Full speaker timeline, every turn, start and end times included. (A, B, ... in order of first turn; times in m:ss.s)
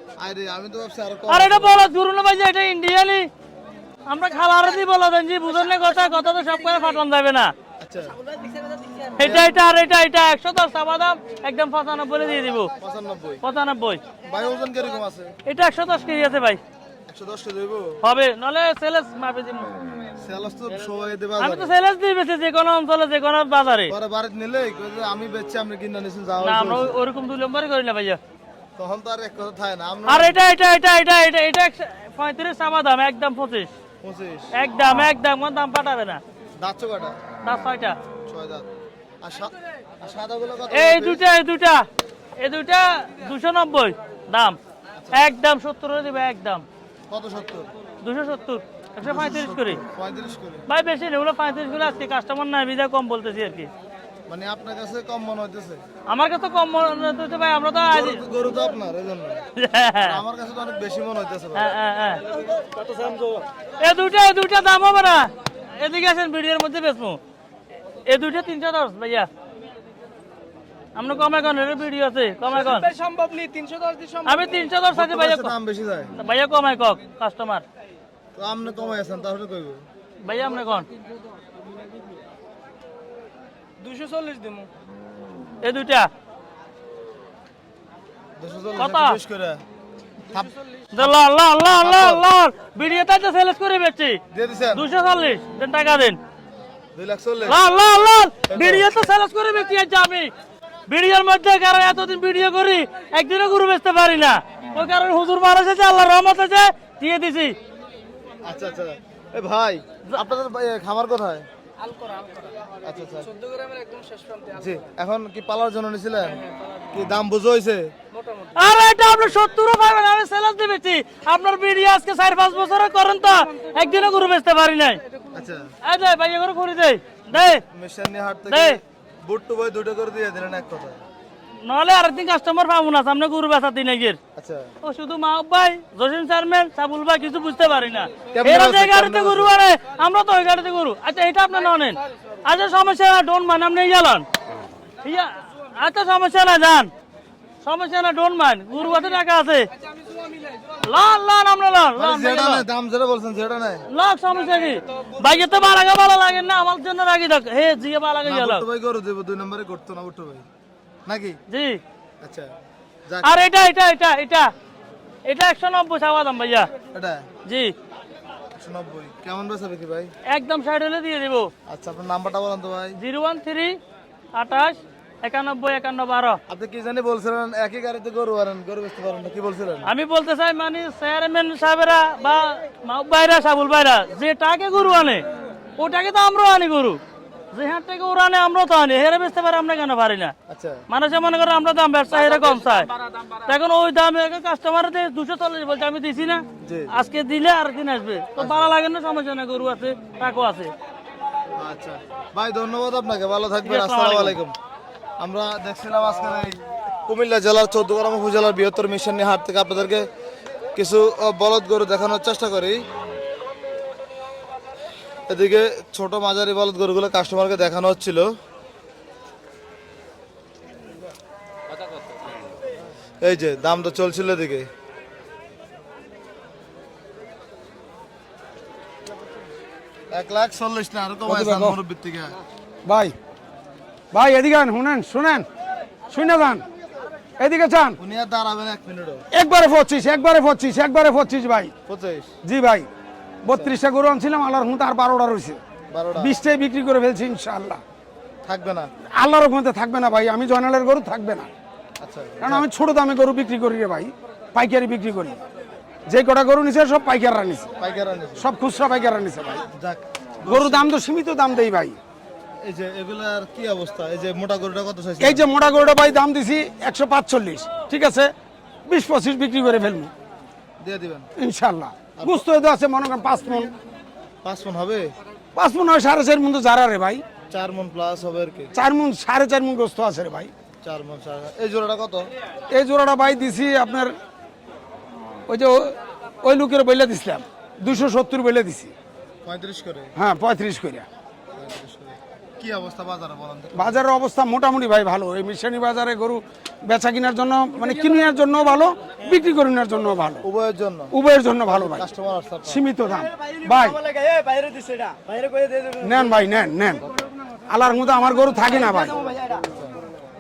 0:00.2-0:01.8 A
0:01.3-0:03.3 B
0:04.1-0:07.5 B
0:07.8-0:08.2 A
0:09.2-0:12.7 B
0:09.2-0:09.5 A
0:12.8-0:13.4 A
0:13.4-0:14.0 B
0:14.3-0:15.3 A
0:15.5-0:16.6 B
0:17.1-0:18.0 A
0:18.0-0:19.7 B
0:20.2-0:21.8 A
0:21.4-0:23.9 B
0:23.9-0:27.0 A
0:26.4-0:28.2 B
0:28.8-0:30.4 A
0:30.1-0:33.7 B
0:34.0-0:34.5 A
0:34.5-0:36.2 B
0:36.6-0:37.2 A
0:37.4-0:38.0 B
0:38.3-0:38.7 A
0:39.2-0:41.2 A
0:40.7-0:41.9 B
0:42.4-0:44.6 B
0:45.0-0:45.2 A
0:45.1-0:46.6 B
0:47.1-0:47.7 A
0:48.0-0:49.8 B
0:49.0-0:50.7 A
0:50.7-0:53.7 B
0:54.3-0:55.8 A
0:56.1-0:58.2 B
0:57.9-0:59.4 A
0:59.6-1:00.2 B
1:00.0-1:01.8 A
1:01.6-1:02.2 B
1:03.8-1:07.2 B
1:08.1-1:09.3 B
1:11.0-1:13.0 B
1:13.0-1:14.3 C
1:14.2-1:15.5 B
1:14.9-1:16.1 A
1:16.2-1:17.6 B
1:18.4-1:19.8 A
1:20.2-1:20.9 B
1:23.8-1:24.7 C
1:25.6-1:26.1 B
1:28.4-1:29.6 A
1:28.8-1:29.2 B
1:30.2-1:31.1 A
1:30.9-1:34.2 B
1:31.8-1:32.2 A
1:34.3-1:34.9 A
1:34.8-1:36.2 B
1:37.0-1:37.6 A
1:37.5-1:40.3 B
1:38.5-1:39.1 A
1:40.9-1:47.6 B
1:48.4-1:51.5 A
1:51.9-1:52.5 C
1:52.8-1:53.3 A
1:53.5-1:54.5 C
1:54.5-1:57.9 A
1:58.6-2:05.0 B
2:05.3-2:05.6 A
2:05.8-2:07.6 B
2:07.3-2:11.0 A
2:08.5-2:08.8 B
2:11.6-2:14.2 B
2:14.4-2:14.7 A
2:14.8-2:24.3 B
2:18.3-2:19.5 A
2:25.0-2:26.9 B
2:27.6-2:29.7 B
2:30.8-2:32.7 B
2:32.0-2:33.9 A
2:33.9-2:38.6 B
2:38.2-2:40.4 A
2:41.1-2:41.4 A
2:41.5-2:41.8 B
2:42.2-2:42.5 A
2:43.2-2:44.5 B
2:45.3-2:46.7 B
2:46.9-2:47.3 A
2:47.5-2:47.7 B
2:48.6-2:50.1 A
2:50.3-2:51.5 B
2:51.7-2:53.0 A
2:53.0-2:53.8 B
2:54.4-2:56.4 B
2:56.5-2:59.9 A
2:59.9-3:05.2 B
3:05.8-3:07.0 B
3:07.5-3:10.3 B
3:10.5-3:10.8 A
3:10.9-3:12.9 B
3:13.4-3:20.7 B
3:16.6-3:16.9 A
3:18.4-3:18.8 A
3:21.6-3:24.6 A
3:23.6-3:24.4 B
3:25.2-3:30.1 A
3:30.8-3:32.8 A
3:35.3-3:38.3 A
3:43.2-3:44.7 A
3:50.1-3:52.4 A
3:51.3-3:51.8 D
3:52.9-3:53.1 D
3:54.1-3:55.5 D
3:56.1-3:56.6 D
3:57.4-3:58.0 D
3:58.0-3:59.2 A
3:59.3-4:01.7 D
4:01.9-4:02.3 A
4:02.4-4:02.9 D
4:03.4-4:05.6 D
4:03.5-4:03.8 A
4:05.9-4:06.4 A
4:06.2-4:07.8 D
4:08.4-4:08.9 A
4:09.2-4:11.5 D
4:12.0-4:12.7 A
4:12.4-4:15.4 D
4:16.1-4:17.7 D
4:17.8-4:18.5 A
4:18.4-4:19.6 D
4:19.7-4:20.9 A
4:20.5-4:22.0 D
4:22.6-4:25.5 A
4:25.2-4:28.3 D
4:28.9-4:30.1 D
4:30.8-4:31.3 A
4:31.4-4:33.7 D
4:32.2-4:32.5 A
4:34.4-4:35.1 A
4:35.6-4:37.2 D
4:37.5-4:38.7 A
4:38.8-4:40.5 D
4:40.8-4:42.3 A
4:42.7-4:44.1 D
4:45.5-4:48.9 D
4:49.4-4:50.1 A
4:50.2-4:51.1 D
4:51.5-4:54.0 A
4:53.8-5:00.4 D
5:00.4-5:01.1 A
5:01.1-5:02.0 D
5:01.7-5:02.8 A
5:02.6-5:04.3 D
5:05.9-5:07.1 D
5:07.7-5:09.2 D
5:09.4-5:09.9 A